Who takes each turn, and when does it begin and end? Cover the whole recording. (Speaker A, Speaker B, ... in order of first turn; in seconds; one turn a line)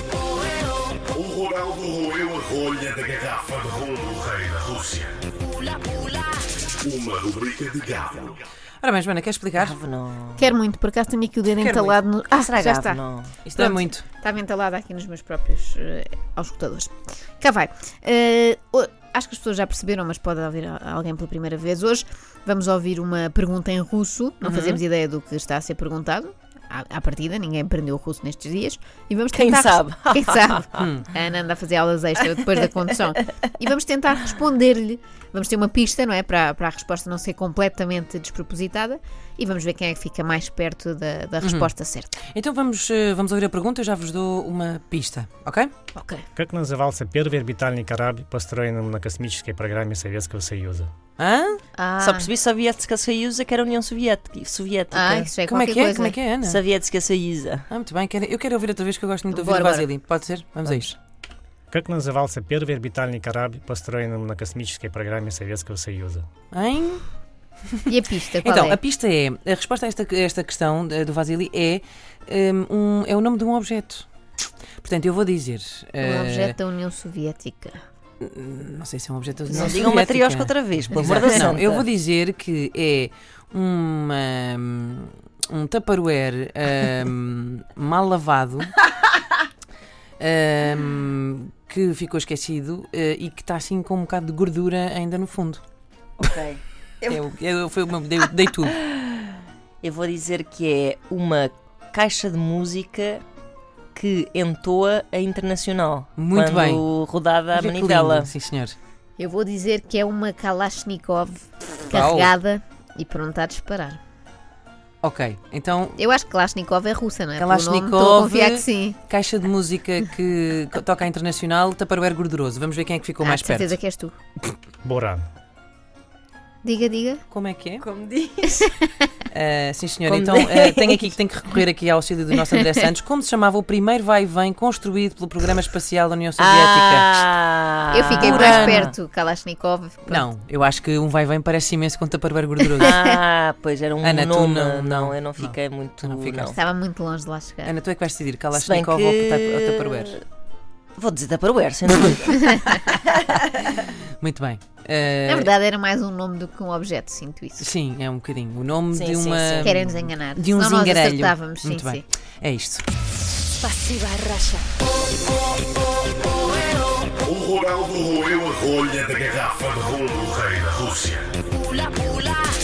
Speaker A: 1.1-5.2
Speaker B: 5.7-6.3
Speaker A: 6.8-8.4
Speaker C: 8.8-9.8
Speaker D: 9.6-10.6
Speaker E: 10.4-13.0
Speaker C: 11.6-12.0
Speaker D: 12.3-13.3
Speaker C: 13.4-14.0
Speaker E: 13.6-42.2
Speaker D: 24.4-24.8
Speaker D: 29.3-30.9
Speaker C: 30.8-31.1
Speaker C: 41.4-41.7
Speaker C: 42.3-45.7
Speaker E: 45.9-46.2
Speaker F: 46.4-50.9
Speaker C: 51.2-51.6
Speaker E: 51.8-52.3
Speaker D: 52.0-55.3
Speaker E: 54.9-56.2
Speaker C: 55.5-56.6
Speaker D: 56.4-57.7
Speaker C: 57.7-61.0
Speaker E: 59.3-59.9
Speaker F: 61.7-66.3
Speaker C: 66.5-67.0
Speaker E: 67.9-68.8
Speaker C: 68.4-74.0
Speaker C: 74.8-76.6
Speaker E: 76.0-77.8
Speaker C: 78.2-88.7
Speaker D: 79.5-81.8
Speaker C: 90.2-95.6
Speaker D: 96.2-96.6
Speaker C: 97.0-98.8
Speaker D: 98.8-99.3
Speaker D: 99.8-103.2
Speaker D: 104.0-108.3
Speaker C: 106.2-106.8
Speaker C: 107.5-108.8
Speaker E: 109.2-114.0
Speaker C: 111.9-112.3
Speaker C: 115.0-116.0
Speaker E: 116.0-119.0
Speaker C: 117.4-123.8
Speaker E: 123.2-124.2
Speaker F: 124.8-125.3
Speaker E: 126.6-127.2
Speaker C: 127.3-127.8
Speaker D: 127.8-128.7
Speaker E: 128.5-129.1
Speaker C: 129.3-137.3
Speaker D: 130.1-131.1
Speaker D: 136.4-138.9
Speaker E: 137.9-140.3
Speaker C: 138.2-138.9
Speaker C: 140.1-143.0
Speaker D: 142.8-146.6
Speaker E: 142.8-143.2
Speaker C: 144.0-146.6
Speaker E: 146.6-147.8
Speaker C: 147.6-150.2
Speaker D: 148.5-150.2
Speaker D: 151.0-153.7
Speaker E: 152.3-152.7
Speaker C: 153.8-155.5
Speaker E: 155.3-157.7
Speaker C: 157.6-162.8
Speaker D: 158.9-159.8
Speaker E: 159.6-162.1
Speaker B: 163.6-164.6
Speaker A: 167.2-171.3
Speaker B: 171.8-172.3